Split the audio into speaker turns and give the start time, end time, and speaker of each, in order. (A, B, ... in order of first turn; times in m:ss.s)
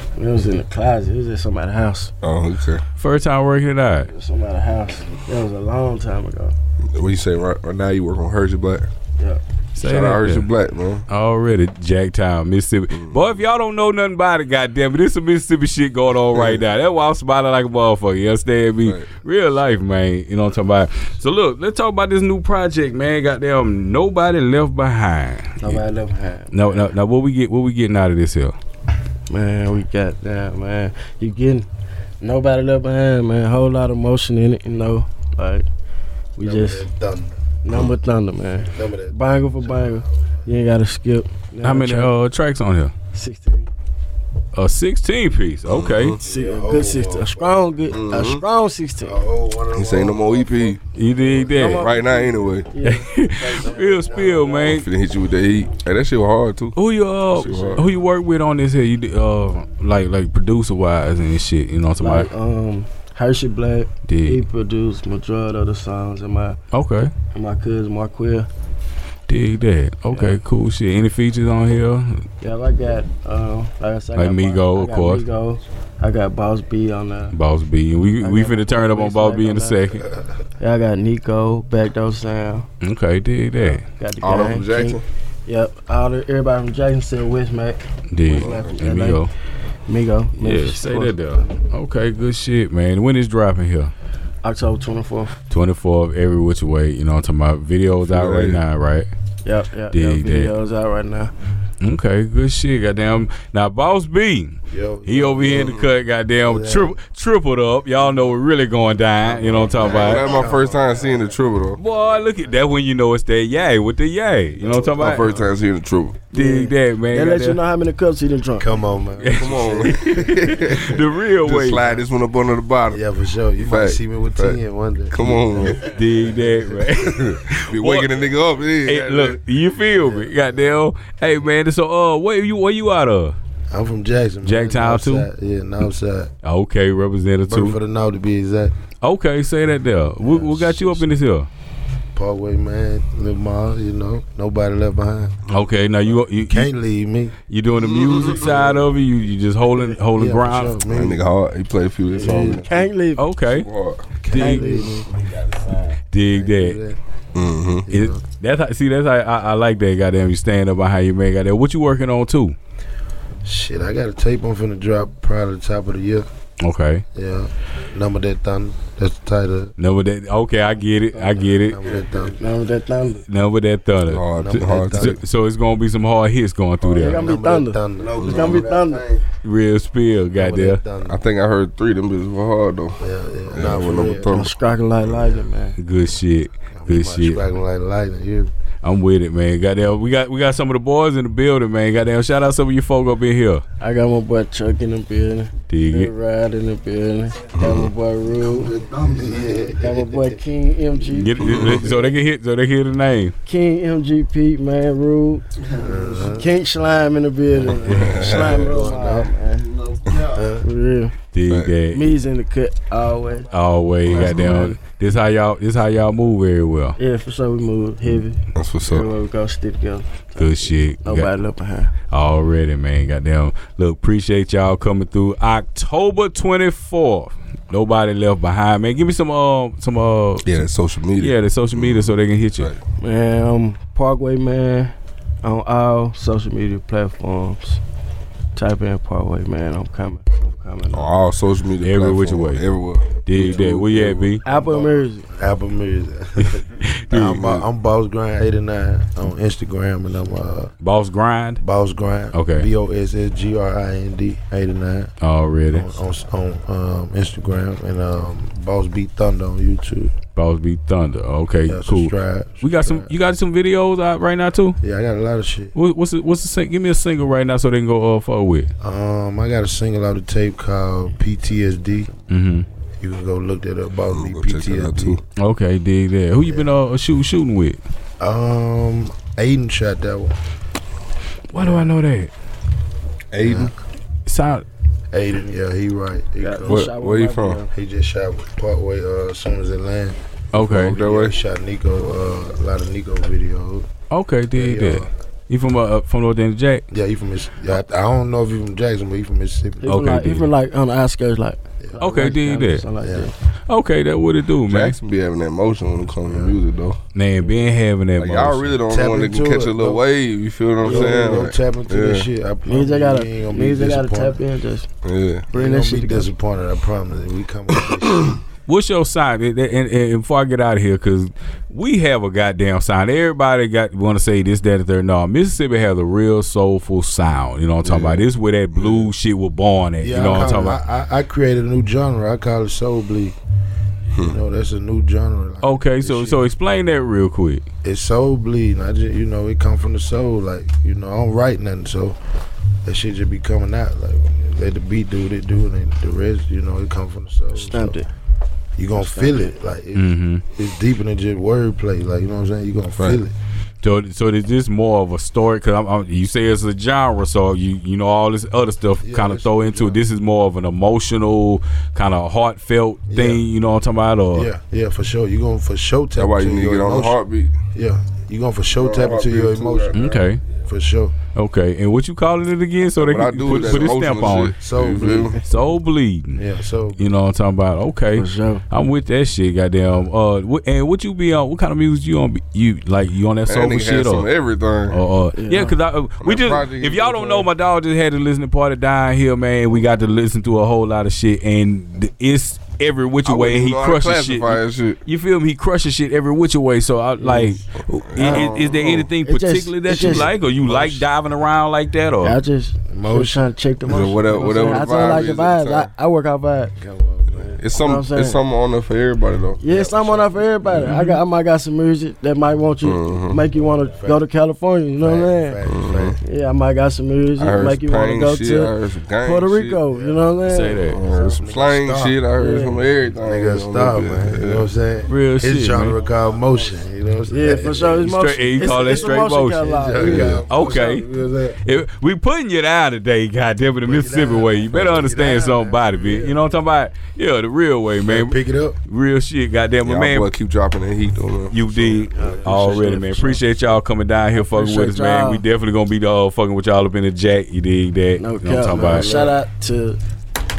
0:00.2-0:02.1 A
0:02.2-0:02.8 B
0:03.0-0:04.1 C
0:04.1-0:06.6 A
0:06.9-0:08.9 B
0:09.8-0:10.5 C
0:09.8-0:11.0 B
0:11.1-0:25.8 C
0:12.9-0:13.2 B
0:16.3-0:16.6 B
0:18.8-0:19.1 B
0:25.6-0:26.9 A
0:26.5-0:28.6 C
0:29.3-0:31.7 A
0:32.2-0:35.7 A
0:36.4-0:36.9 A
0:36.4-0:37.3 D
0:37.6-0:42.2 A
0:38.6-0:40.3 D
0:41.6-0:42.9 C
0:43.1-0:43.7 A
0:44.5-0:46.2 C
0:45.7-0:46.2 B
0:46.2-0:49.2 A
0:46.2-0:47.6 D
0:47.9-0:48.4 B
0:49.0-0:51.7 D
0:49.7-0:50.8 B
0:50.9-0:51.8 C
0:51.5-0:54.5 A
0:51.6-0:52.7 B
0:52.8-0:54.9 C
0:53.4-0:54.6 D
0:54.5-0:56.8 B
0:56.7-1:02.3 C
0:57.3-0:57.9 B
1:02.0-1:06.6 A
1:04.1-1:04.4 C
1:06.7-1:07.1 C
1:07.3-1:08.5 A
1:09.3-1:12.2 C
1:10.1-1:10.4 A
1:12.4-1:17.4 A
1:14.2-1:15.2 C
1:17.3-1:20.0 C
1:18.2-1:20.0 A
1:20.6-1:22.7 A
1:22.8-1:23.8 C
1:23.6-1:29.2 A
1:24.2-1:25.0 B
1:28.1-1:29.3 C
1:28.3-1:28.8 B
1:29.9-1:31.4 A
1:30.4-1:33.9 C
1:34.4-1:35.3 A
1:35.5-1:39.1 C
1:38.0-1:38.6 B
1:39.4-1:41.3 A
1:39.9-1:40.5 C
1:41.8-1:50.2 C
1:44.7-1:45.8 D
1:45.5-1:45.9 B
1:46.4-1:47.0 D
1:49.2-1:51.3 D
1:49.8-1:51.8 B
1:51.8-1:55.3 C
1:54.6-1:55.4 D
1:55.0-1:56.2 B
1:56.3-1:57.6 C
1:56.3-1:58.8 A
1:58.6-2:00.7 D
1:59.2-2:01.9 C
1:59.3-2:03.0 B
2:02.9-2:06.6 D
2:03.6-2:04.6 B
2:05.1-2:05.8 B
2:05.8-2:08.1 C
2:07.0-2:09.4 B
2:08.8-2:13.3 C
2:13.7-2:16.3 D
2:14.4-2:15.3 C
2:16.4-2:17.8 C
2:17.5-2:18.7 D
2:19.0-2:21.5 C
2:20.2-2:21.0 D
2:22.1-2:25.4 D
2:25.5-2:26.7 C
2:26.5-2:27.3 D
2:27.5-2:30.8 C
2:27.8-2:28.6 B
2:30.1-2:31.2 D
2:30.9-2:34.1 B
2:32.1-2:32.6 D
2:32.2-2:33.2 A
2:33.2-2:33.7 C
2:34.2-2:35.0 D
2:34.3-2:34.6 C
2:34.3-2:35.7 A
2:36.1-2:36.8 C
2:36.2-2:37.0 D
2:37.3-2:37.9 B
2:37.8-2:38.2 D
2:37.9-2:42.6 C
2:43.4-2:46.3 D
2:46.6-2:47.0 C
2:47.1-2:49.7 D
2:49.8-2:51.8 C
2:51.1-2:53.2 A
2:51.6-2:52.4 D
2:53.3-2:57.2 C
2:54.1-2:55.2 B
2:54.3-2:55.2 D
2:56.8-2:59.0 D
2:56.9-2:59.1 A
2:58.2-2:58.7 B
2:59.4-3:00.8 C
3:00.3-3:01.2 D
3:01.0-3:04.5 B
3:03.0-3:04.4 D
3:04.2-3:05.8 A
3:05.8-3:07.4 C
3:06.7-3:08.5 D
3:08.8-3:13.6 C
3:13.8-3:18.7 A
3:15.7-3:16.1 C
3:17.6-3:17.9 B
3:18.8-3:19.1 B
3:19.0-3:20.3 D
3:19.7-3:21.8 A
3:21.1-3:23.3 C
3:21.4-3:21.8 B
3:23.4-3:25.6 A
3:25.7-3:26.5 D
3:26.2-3:29.8 A
3:27.5-3:29.3 D
3:27.8-3:28.7 B
3:30.2-3:30.6 D
3:30.6-3:31.2 A
3:31.3-3:32.1 C
3:31.5-3:31.8 B
3:31.9-3:33.5 A
3:33.5-3:37.0 C
3:34.0-3:34.8 B
3:34.2-3:34.6 A
3:37.0-3:41.9 A
3:38.5-3:39.1 B
3:40.4-3:41.3 C
3:42.1-3:50.6 C
3:50.4-3:52.8 B
3:51.2-3:52.7 C
3:53.0-3:57.8 A
3:58.6-4:01.1 A
4:00.9-4:04.6 B
4:01.8-4:02.6 C
4:03.2-4:04.4 C
4:04.4-4:05.3 A
4:04.5-4:10.7 D
4:06.4-4:07.6 C
4:10.8-4:11.6 C
4:11.6-4:15.1 D
4:12.3-4:12.7 C
4:15.2-4:15.9 C
4:15.7-4:20.1 D
4:20.3-4:24.8 C
4:21.7-4:23.1 D
4:24.8-4:25.7 D
4:25.7-4:28.7 C
4:28.8-4:32.1 D
4:32.3-4:32.6 C
4:33.0-4:35.2 D
4:34.1-4:35.2 B
4:35.4-4:37.8 C
4:36.4-4:36.7 D
4:38.2-4:40.3 D
4:41.5-4:42.3 C
4:41.5-4:41.9 D
4:43.3-4:43.7 B
4:43.4-4:43.7 D
4:44.2-4:44.6 C
4:45.1-4:46.9 D
4:46.4-4:47.7 A
4:46.6-4:47.6 B
4:47.7-4:53.9 D
4:50.5-4:51.0 C
4:50.5-4:51.3 B
4:54.1-4:56.8 C
4:54.5-4:55.1 D
4:56.9-5:00.0 D
4:59.8-5:03.3 A
4:59.8-5:00.5 C
5:02.0-5:02.8 C
5:03.0-5:03.3 D
5:03.7-5:05.0 C
5:04.6-5:07.0 B
5:06.2-5:06.6 D
5:07.1-5:08.8 C
5:08.2-5:12.3 B
5:08.9-5:10.0 D
5:10.8-5:11.4 A
5:10.8-5:14.4 D
5:12.6-5:14.9 A
5:15.0-5:15.5 B
5:15.5-5:18.4 D
5:15.5-5:16.3 A
5:18.6-5:30.8 C
5:27.8-5:29.1 B
5:30.0-5:33.4 D
5:34.2-5:36.4 D
5:35.6-5:37.6 C
5:37.8-5:42.2 D
5:42.8-5:48.0 D
5:47.6-5:48.1 A
5:48.8-5:53.3 D
5:49.0-5:49.5 A
5:49.9-5:50.4 C
5:53.8-6:04.5 C
5:59.0-6:00.0 D
6:03.1-6:03.4 D
6:04.3-6:07.2 D
6:06.2-6:07.6 B
6:07.7-6:11.1 D
6:08.8-6:10.1 B
6:09.9-6:10.4 C
6:11.3-6:14.5 C
6:13.0-6:15.4 B
6:14.5-6:15.4 D
6:15.4-6:16.4 C
6:16.3-6:17.0 D
6:17.0-6:24.3 C
6:18.1-6:18.6 A
6:23.4-6:25.0 B
6:24.9-6:42.4 C
6:25.3-6:25.8 A
6:26.2-6:27.5 B
6:33.2-6:35.0 B
6:37.2-6:37.5 A
6:38.0-6:39.1 B
6:38.2-6:40.3 A
6:39.9-6:41.0 D
6:42.2-6:46.7 A
6:42.9-6:43.5 D
6:43.8-6:45.9 B
6:46.8-6:47.6 D
6:47.6-6:49.6 B
6:47.7-6:48.4 A
6:49.6-6:55.6 A
6:49.6-6:50.9 D
6:50.8-6:51.2 C
6:52.8-6:53.4 B
6:53.9-6:54.2 D
6:55.0-6:56.2 D
6:55.6-6:56.2 B
6:56.2-7:00.9 A
6:57.4-6:59.8 B
6:59.9-7:02.2 D
7:00.4-7:01.0 C
7:00.8-7:04.7 B
7:02.3-7:02.8 A
7:03.2-7:11.6 D
7:05.1-7:06.0 C
7:07.3-7:10.4 A
7:08.0-7:09.7 C
7:10.0-7:10.5 B
7:10.4-7:11.0 C
7:11.6-7:20.3 C
7:13.8-7:16.4 D
7:18.0-7:18.8 D
7:19.8-7:21.6 B
7:21.5-7:29.1 C
7:21.6-7:23.0 D
7:22.1-7:23.4 A
7:24.3-7:25.4 A
7:28.1-7:30.0 A
7:28.6-7:29.4 D